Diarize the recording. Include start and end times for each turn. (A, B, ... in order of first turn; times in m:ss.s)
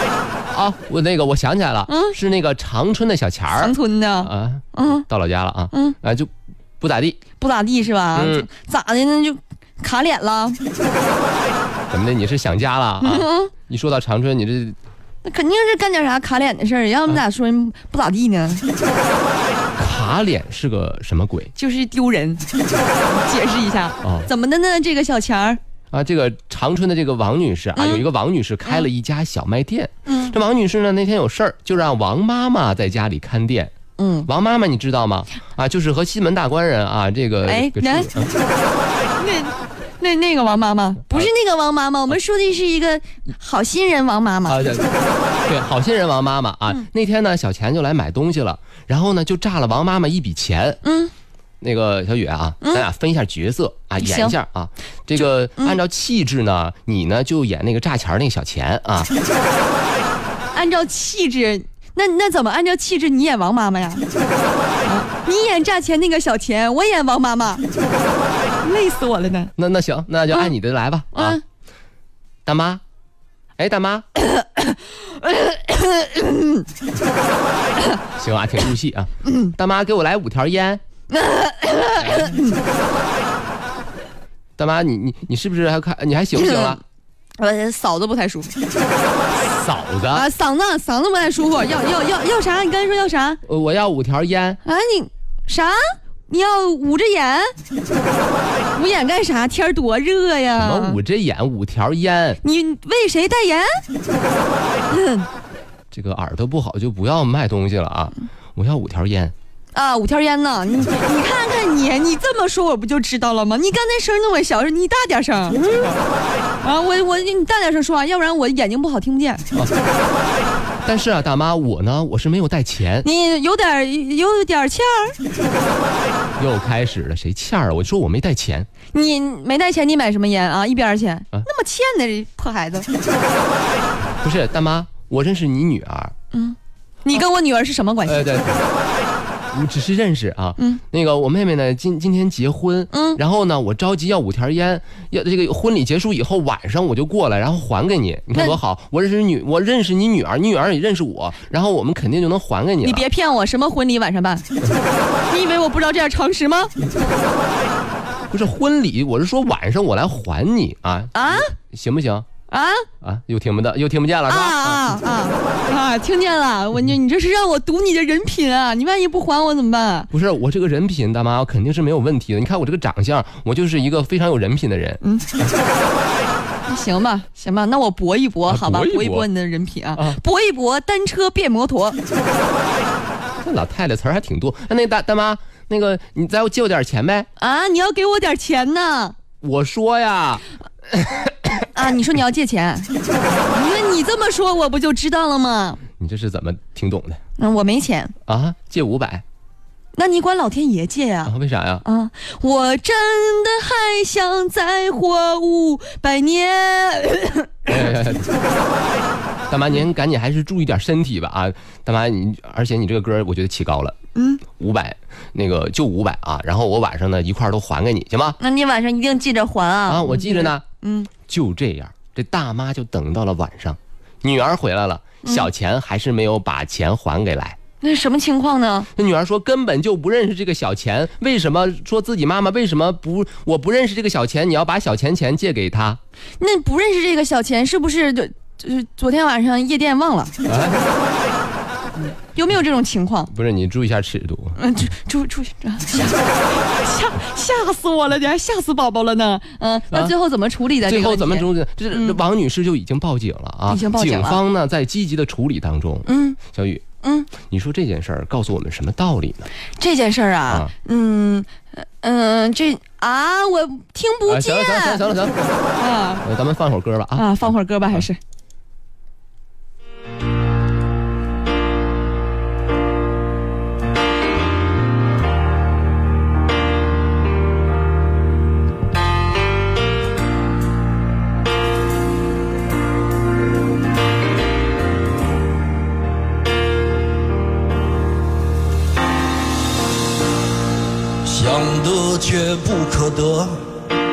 0:00.5-0:07.2 A
0:01.9-0:02.2 B
0:03.5-0:05.0 B
0:07.4-0:10.6 B
0:08.1-0:08.5 A
0:11.9-0:14.8 A
0:13.0-0:13.5 B
0:15.2-0:18.6 B
0:19.8-0:21.5 A
0:21.6-0:22.4 B
0:23.0-0:25.6 B
0:24.0-0:24.3 A
0:25.9-0:33.7 A
0:27.8-0:28.0 B
0:30.0-0:30.4 B
0:34.0-0:34.3 B
0:34.3-0:38.3 A
0:37.4-0:38.3 B
0:39.2-0:44.6 B
0:44.5-0:44.9 A
0:45.4-0:50.8 A
0:50.8-0:51.1 B
0:51.6-0:59.1 A
0:54.0-0:54.4 B
1:00.5-1:04.0 B
1:04.8-1:07.6 B
1:08.6-1:09.5 B
1:09.6-1:11.4 A
1:11.1-1:11.4 B
1:12.4-1:12.8 A
1:13.6-1:14.0 A
1:14.2-1:16.7 B
1:18.2-1:20.8 A
1:19.2-1:19.5 B
1:21.1-1:22.6 B
1:22.0-1:22.4 A
1:24.6-1:26.8 A
1:26.3-1:26.8 B
1:27.4-1:28.5 B
1:29.3-1:30.3 A
1:30.1-1:33.4 B
1:33.4-1:34.6 A
1:34.6-1:37.5 B
1:38.7-1:41.0 B
1:40.6-1:42.4 A
1:42.4-1:43.8 B
1:44.9-1:45.3 B
1:45.9-1:49.3 A
1:49.7-1:55.6 B
1:55.5-1:56.0 A
1:56.6-1:59.4 B
2:00.8-2:03.1 A
2:03.0-2:05.2 B
2:06.4-2:08.7 A
2:08.9-2:12.9 B
2:14.2-2:16.1 A
2:16.3-2:18.4 B
2:18.0-2:18.6 A
2:19.5-2:33.0 A
2:22.9-2:23.2 B
2:32.8-2:34.4 B
2:35.3-2:36.7 B
2:38.3-2:42.2 A
2:41.1-2:41.5 B
2:42.5-2:42.8 B
2:43.0-2:45.0 A
2:44.3-2:50.1 B
2:50.1-2:55.0 A
2:55.0-2:55.3 B
2:56.6-3:02.0 B
2:58.4-2:59.3 A
2:59.9-3:00.2 A
3:03.4-3:07.3 A
3:07.4-3:09.2 B
3:09.4-3:11.7 A
3:11.7-3:15.8 B
3:16.0-3:17.2 A
3:17.4-3:18.1 B
3:18.3-3:19.2 A
3:19.9-3:21.3 B
3:21.2-3:21.8 A
3:21.8-3:27.9 B
3:27.7-3:28.3 A
3:29.5-3:33.9 A
3:34.1-3:34.4 B
3:34.6-3:38.4 A
3:38.4-3:41.1 B
3:39.9-3:40.6 A
3:41.3-3:47.6 A
3:45.2-3:45.5 B
3:47.8-3:48.9 B
3:48.9-3:56.0 A
3:56.4-4:00.3 B
4:00.4-4:00.9 A
4:02.2-4:03.3 B
4:03.3-4:04.6 A
4:04.6-4:12.2 B
4:10.8-4:16.8 A
4:13.7-4:14.4 B
4:16.0-4:16.4 B
4:17.0-4:17.3 B
4:17.4-4:19.5 A
4:19.8-4:25.0 B
4:24.3-4:25.5 A
4:25.7-4:26.2 B
4:26.2-4:28.1 A
4:27.1-4:28.2 B
4:51.2-4:53.7 C